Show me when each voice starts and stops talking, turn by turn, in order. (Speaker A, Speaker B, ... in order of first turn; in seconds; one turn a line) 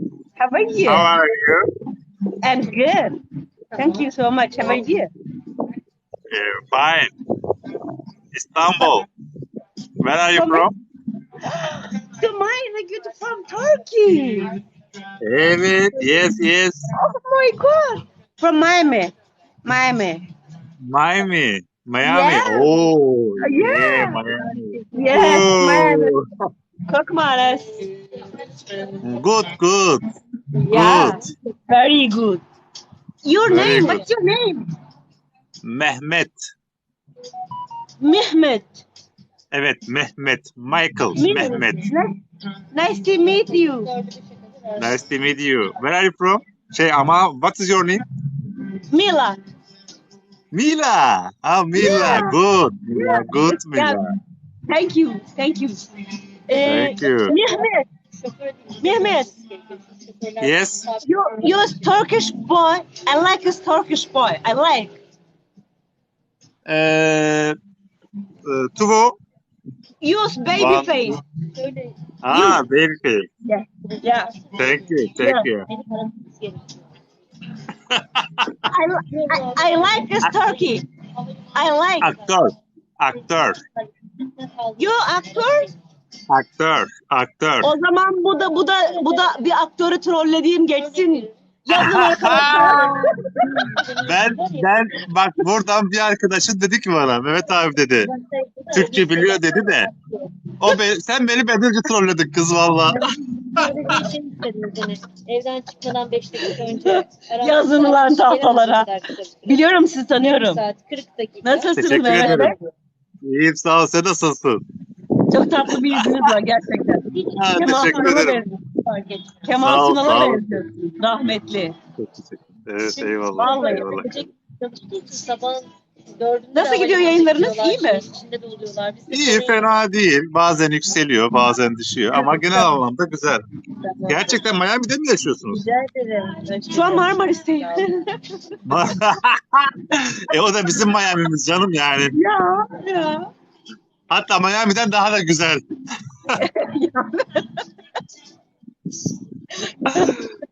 Speaker A: 0.4-1.1
Speaker B: 0.8-1.6
Speaker A: 2.4-3.2
Speaker A: 3.7-5.1
Speaker B: 6.3-7.1
Speaker B: 8.3-9.1
Speaker B: 10.0-10.7
Speaker A: 10.3-10.7
Speaker A: 11.4-14.5
Speaker B: 15.2-16.8
Speaker A: 16.9-19.1
Speaker A: 19.6-20.2
Speaker B: 20.8-26.2
Speaker A: 22.0-22.7
Speaker A: 23.4-24.2
Speaker A: 24.9-26.1
Speaker C: 25.0-25.4
Speaker A: 26.9-27.8
Speaker B: 29.0-30.0
Speaker A: 30.6-32.4
Speaker B: 30.7-31.2
Speaker C: 30.8-31.1
Speaker A: 33.2-34.6
Speaker B: 33.5-34.0
Speaker C: 33.7-34.1
Speaker B: 35.6-36.5
Speaker A: 38.0-38.8
Speaker B: 39.5-41.9
Speaker A: 41.1-42.1
Speaker A: 42.7-43.9
Speaker C: 43.1-45.0
Speaker B: 44.8-48.0
Speaker A: 48.9-49.4
Speaker B: 50.5-54.1
Speaker A: 51.8-52.4
Speaker A: 52.9-54.0
Speaker A: 54.7-55.8
Speaker A: 56.5-57.9
Speaker B: 56.6-57.3
Speaker C: 58.2-61.9
Speaker A: 58.8-59.3
Speaker B: 60.4-60.8
Speaker A: 61.0-65.0
Speaker B: 66.7-67.6
Speaker B: 68.5-69.2
Speaker A: 70.0-71.2
Speaker B: 70.5-71.1
Speaker C: 71.5-72.0
Speaker B: 72.2-73.3
Speaker A: 72.3-72.6
Speaker A: 73.5-74.3
Speaker C: 73.9-75.1
Speaker B: 74.6-75.7
Speaker A: 75.2-75.5
Speaker C: 75.7-76.7
Speaker B: 77.9-78.7
Speaker A: 78.7-80.8
Speaker C: 79.1-80.7
Speaker C: 81.3-82.4
Speaker A: 81.5-82.1
Speaker B: 82.0-83.6
Speaker C: 83.5-85.7
Speaker A: 84.8-85.7
Speaker B: 86.3-87.7
Speaker A: 87.6-93.8
Speaker C: 88.3-89.4
Speaker C: 90.7-94.7
Speaker B: 91.7-93.1
Speaker B: 94.0-98.1
Speaker C: 98.0-100.3
Speaker B: 98.7-99.9
Speaker B: 100.6-103.0
Speaker A: 102.9-104.0
Speaker C: 103.5-112.5
Speaker A: 106.8-108.9
Speaker A: 109.5-110.6
Speaker A: 111.4-112.6
Speaker B: 111.8-112.5
Speaker B: 113.2-114.6
Speaker A: 115.3-121.8
Speaker B: 115.7-116.2
Speaker C: 117.1-118.2
Speaker B: 117.3-118.4
Speaker B: 119.6-120.4
Speaker B: 122.0-124.1
Speaker C: 122.9-129.7
Speaker A: 123.4-124.1
Speaker A: 126.5-128.0
Speaker B: 129.1-133.4
Speaker A: 132.1-132.7
Speaker B: 134.1-135.6
Speaker C: 135.5-137.8
Speaker A: 136.7-138.1
Speaker B: 138.7-142.1
Speaker A: 142.2-143.3
Speaker B: 144.1-145.6
Speaker A: 146.3-147.6
Speaker A: 149.7-150.3
Speaker B: 149.9-150.2